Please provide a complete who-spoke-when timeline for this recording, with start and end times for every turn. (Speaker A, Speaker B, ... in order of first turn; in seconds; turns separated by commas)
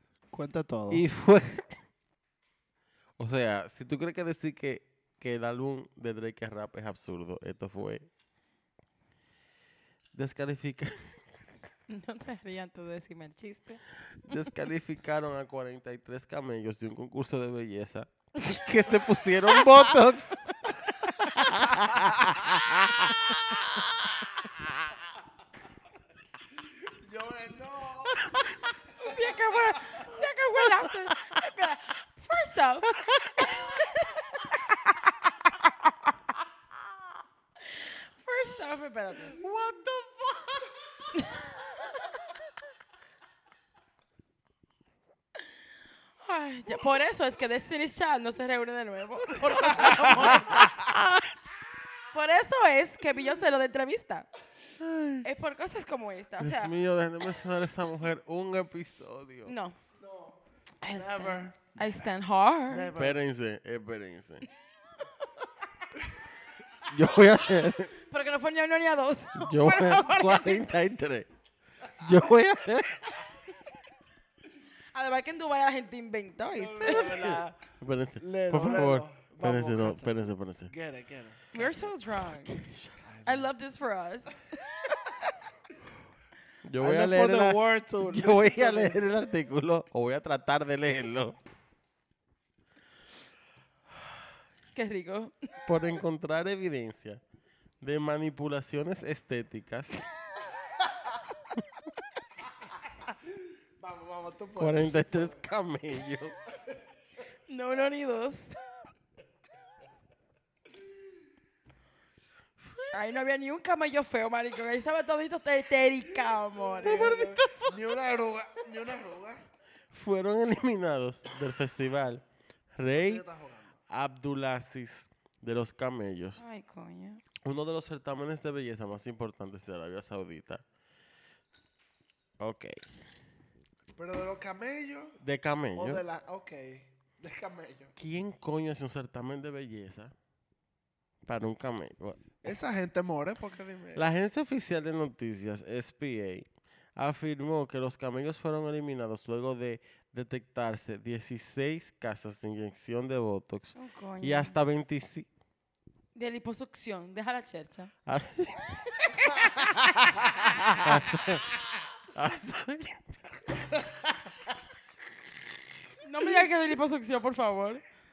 Speaker A: 0.3-1.0, Speaker B: 0.9-1.8, Speaker B: 3.2-8.1, Speaker B: 10.1-11.1, Speaker C: 11.9-14.4, Speaker B: 14.2-24.7, Speaker C: 18.4-21.7, Speaker A: 21.9-22.2, Speaker A: 26.5-28.2, Speaker B: 28.2-28.6, Speaker C: 29.0-35.9, Speaker A: 29.0-30.0, Speaker B: 30.9-31.4, Speaker B: 32.9-33.6, Speaker C: 37.6-39.4, Speaker B: 39.3-40.7, Speaker C: 41.1-41.5, Speaker C: 46.2-50.7, Speaker B: 49.5-51.2, Speaker A: 49.9-50.7, Speaker C: 52.1-54.3, Speaker B: 54.8-55.2, Speaker C: 55.2-56.7, Speaker B: 56.4-59.5, Speaker C: 59.4-59.8, Speaker A: 60.0-61.9, Speaker C: 60.8-62.9, Speaker A: 62.7-63.2, Speaker B: 62.9-64.5, Speaker B: 66.8-67.9, Speaker C: 68.0-70.6, Speaker B: 69.3-71.3, Speaker B: 72.0-73.2, Speaker C: 74.9-77.1, Speaker A: 76.5-77.6, Speaker B: 77.0-80.7, Speaker A: 78.2-81.5, Speaker C: 81.5-82.5, Speaker B: 82.4-83.3, Speaker C: 83.2-85.3, Speaker B: 86.6-91.4, Speaker A: 86.8-89.1, Speaker C: 94.7-95.6, Speaker B: 95.6-97.2, Speaker B: 97.8-100.1, Speaker A: 103.2-105.4, Speaker B: 104.6-106.6, Speaker C: 107.5-108.6, Speaker C: 112.9-117.2, Speaker A: 116.6-119.4, Speaker B: 116.8-118.0, Speaker B: 119.9-123.2, Speaker A: 122.9-123.8, Speaker B: 123.9-126.4, Speaker C: 126.4-127.2, Speaker B: 127.4-130.6, Speaker B: 132.4-132.8, Speaker A: 133.9-135.2, Speaker B: 135.2-136.0, Speaker A: 135.7-137.9, Speaker B: 138.0-140.1, Speaker B: 141.2-142.3, Speaker A: 142.4-144.1, Speaker B: 143.9-155.3, Speaker C: 153.8-154.6, Speaker C: 156.1-157.9, Speaker B: 158.1-158.6, Speaker C: 158.8-160.9, Speaker B: 160.8-161.6, Speaker B: 162.1-163.6, Speaker A: 163.7-164.1, Speaker C: 166.0-167.8